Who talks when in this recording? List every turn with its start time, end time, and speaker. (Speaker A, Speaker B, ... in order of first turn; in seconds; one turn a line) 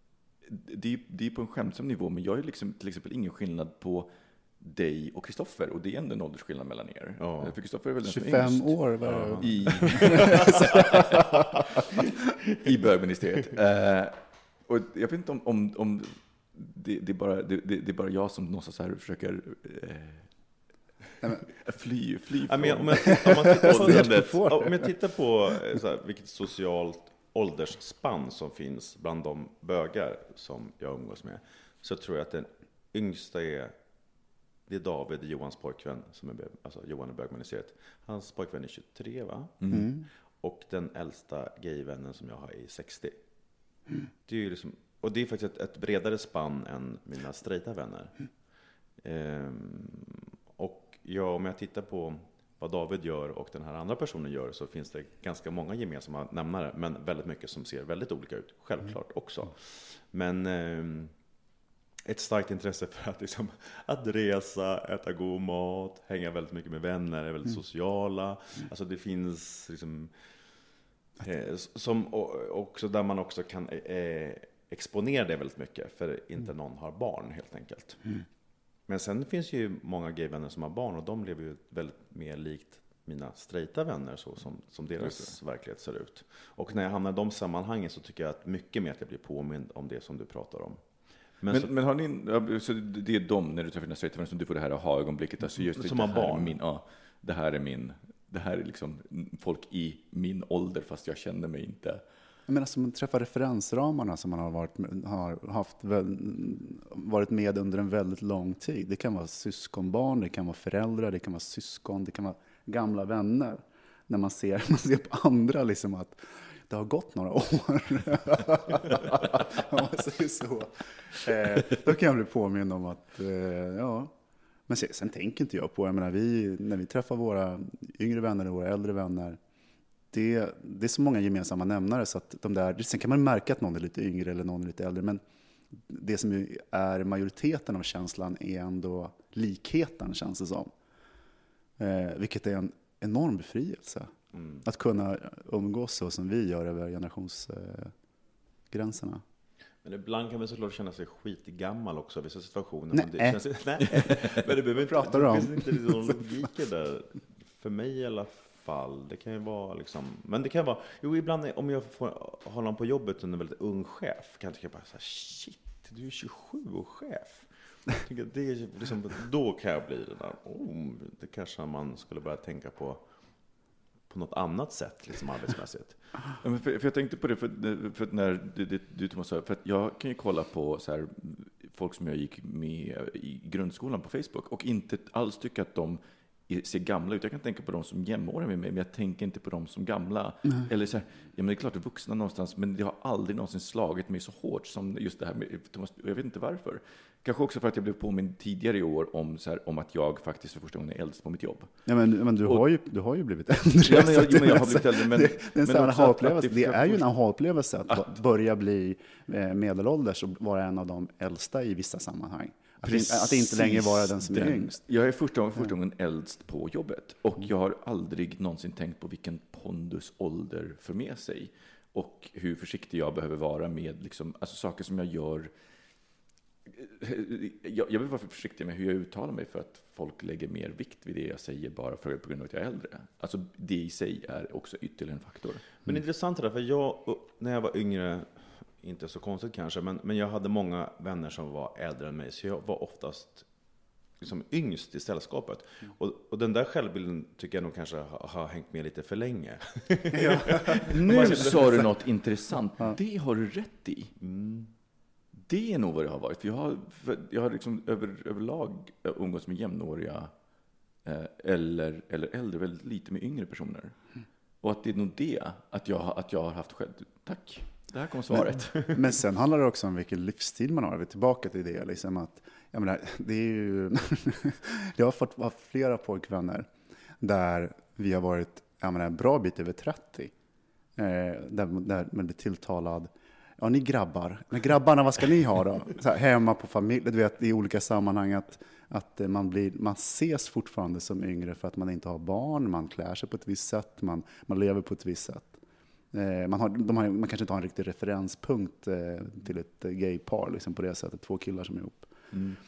Speaker A: 0.4-8.8
Speaker B: 7.2-7.5
Speaker C: 8.0-11.2
Speaker B: 9.1-11.0
Speaker A: 9.4-11.2
Speaker A: 12.6-20.3
Speaker A: 21.5-24.8
Speaker B: 22.5-33.7
Speaker C: 23.7-24.9
Speaker B: 34.7-39.7
Speaker A: 39.6-39.9
Speaker C: 39.7-40.1
Speaker B: 40.4-43.2
Speaker B: 44.3-48.1
Speaker B: 49.0-61.1
Speaker B: 62.1-70.1
Speaker B: 71.2-78.2
Speaker B: 78.9-90.8
Speaker A: 85.0-85.3
Speaker B: 91.4-91.7
Speaker A: 91.5-102.0
Speaker B: 95.6-96.6
Speaker C: 102.5-124.1
Speaker C: 124.7-129.4
Speaker C: 130.1-135.2
Speaker C: 135.7-140.7
Speaker C: 141.8-144.1
Speaker B: 144.3-144.6
Speaker C: 144.6-147.9
Speaker C: 148.7-149.2
Speaker B: 149.8-173.0
Speaker C: 152.9-153.4
Speaker C: 154.9-155.8
Speaker B: 174.1-176.0
Speaker A: 176.4-201.7
Speaker C: 201.9-214.8
Speaker A: 203.8-207.1
Speaker A: 212.8-225.5
Speaker A: 226.7-235.7
Speaker B: 235.8-243.5
Speaker B: 244.2-251.9
Speaker C: 250.1-250.8
Speaker A: 250.8-254.2
Speaker B: 254.2-254.7
Speaker A: 255.5-260.3
Speaker A: 261.1-264.0
Speaker A: 264.6-268.9
Speaker C: 268.8-276.7
Speaker C: 277.2-280.3
Speaker C: 281.0-295.6
Speaker C: 296.1-302.1
Speaker B: 302.3-302.6